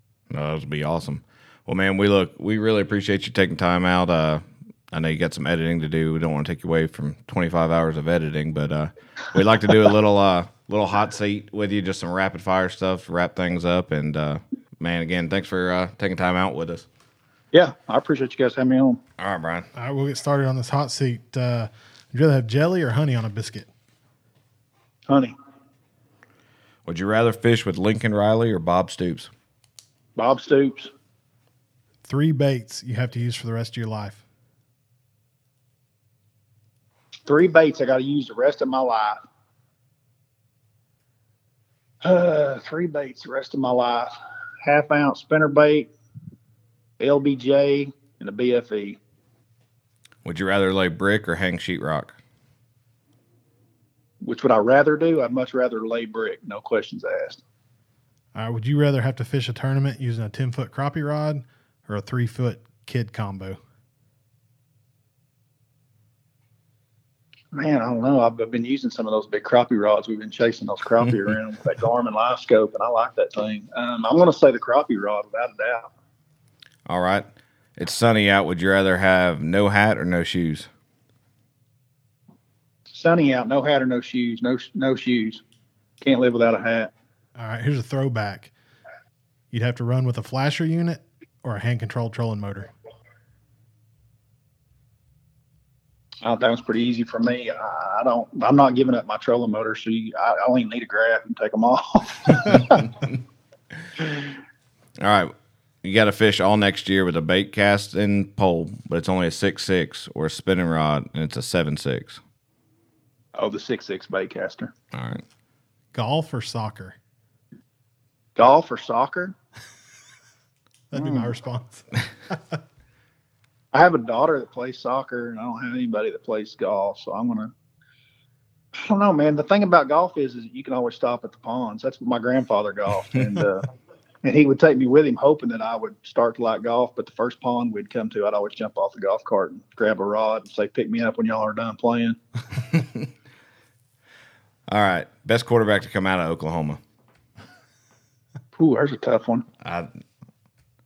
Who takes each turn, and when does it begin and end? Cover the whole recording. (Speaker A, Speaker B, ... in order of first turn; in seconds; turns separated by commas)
Speaker A: 0.3-16.9, Speaker B: 17.5-19.0, Speaker A: 19.2-19.7, Speaker C: 19.7-23.7, Speaker B: 25.1-25.3, Speaker A: 26.9-29.3, Speaker B: 30.1-30.9, Speaker C: 32.0-34.2, Speaker B: 37.3-39.2, Speaker B: 42.0-45.9, Speaker B: 47.0-49.0, Speaker A: 50.2-52.1, Speaker B: 54.2-57.4, Speaker C: 58.3-63.6, Speaker B: 67.5-75.9, Speaker A: 76.9-80.7, Speaker B: 82.9-85.4, Speaker B: 86.0-86.9, Speaker C: 87.4-88.5, Speaker C: 89.5-92.7, Speaker B: 96.2-103.0, Speaker A: 105.0-112.2, Speaker B: 113.3-114.7, Speaker A: 114.9-115.2, Speaker C: 115.9-117.0, Speaker B: 118.3-119.3, Speaker C: 120.9-122.6, Speaker B: 120.9-121.3, Speaker B: 123.7-127.5, Speaker B: 128.7-133.7, Speaker B: 134.2-142.2, Speaker A: 144.7-146.8, Speaker B: 148.5-149.4, Speaker A: 149.6-149.9